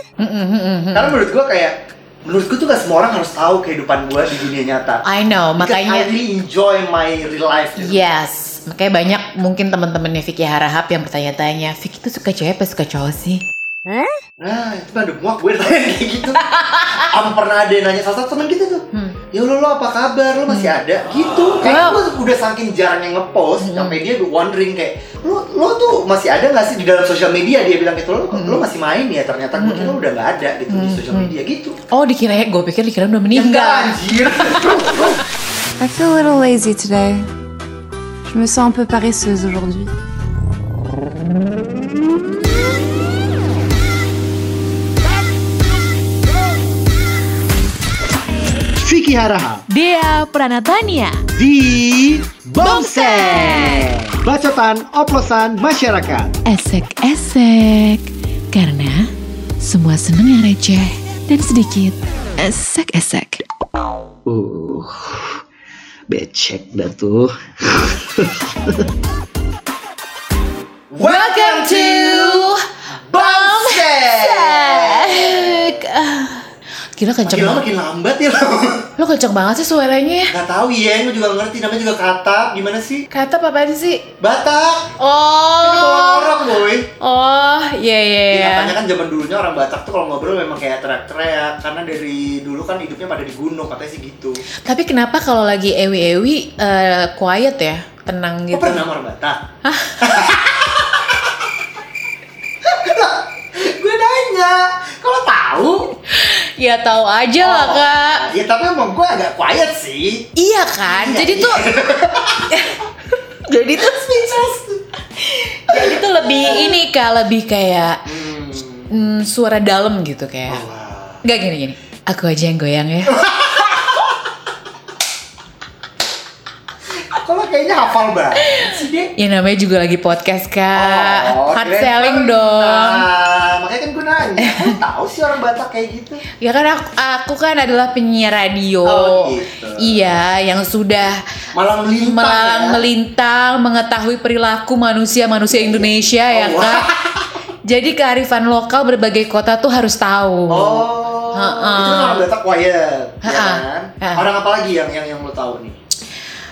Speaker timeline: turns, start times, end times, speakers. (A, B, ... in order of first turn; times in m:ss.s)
0:00.2-0:01.2 A
0:00.9-0:05.0 B
0:05.1-0:06.1 A
0:05.6-0:08.0 B
0:07.8-0:13.4 A
0:14.4-0:16.4 B
0:16.4-0:17.1 A
0:17.0-0:31.8 B
0:21.7-0:22.0 A
0:23.6-0:24.0 A
0:28.3-0:28.6 A
0:29.6-0:30.0 A
0:30.7-0:31.3 A
0:31.9-0:35.0 A
0:33.3-0:35.2 B
0:35.8-0:37.3 C
0:38.3-0:39.9 C
0:48.8-0:49.6 B
0:49.7-0:51.2 A
0:51.4-0:56.3 B
0:52.6-0:53.9 A
0:56.5-0:59.1 A
0:59.6-1:03.4 A
1:04.3-1:05.4 D
1:06.1-1:08.3 D
1:10.9-1:15.8 B
1:11.0-1:17.6 A
1:17.2-1:18.9 B
1:19.0-1:20.3 A
1:20.3-1:23.1 B
1:23.1-1:24.0 A
1:24.2-1:24.9 B
1:25.0-1:28.7 A
1:25.6-1:26.9 B
1:28.3-1:34.4 B
1:34.6-1:38.8 A
1:38.5-1:39.4 B
1:39.6-1:40.2 A
1:40.0-1:41.3 B
1:42.6-1:46.0 B
1:46.1-1:48.2 A
1:47.4-1:50.3 B
1:50.4-1:51.7 A
1:50.8-1:52.7 B
1:53.5-1:54.4 A
1:53.7-1:54.8 B
1:55.2-1:58.0 A
1:55.7-1:56.8 B
1:58.1-1:58.9 B
1:58.9-2:00.6 A
2:00.5-2:01.2 B
2:01.2-2:03.2 A
2:03.1-2:04.2 B
2:07.1-2:09.1 B
2:09.2-2:13.1 A
2:10.7-2:16.2 B
2:14.4-2:14.8 A
2:16.4-2:21.2 A
2:18.8-2:20.1 B
2:21.5-2:22.9 B
2:22.0-2:26.9 A
2:25.5-2:27.4 B
2:27.7-2:32.3 A
2:30.5-2:35.8 B
2:33.2-2:34.2 A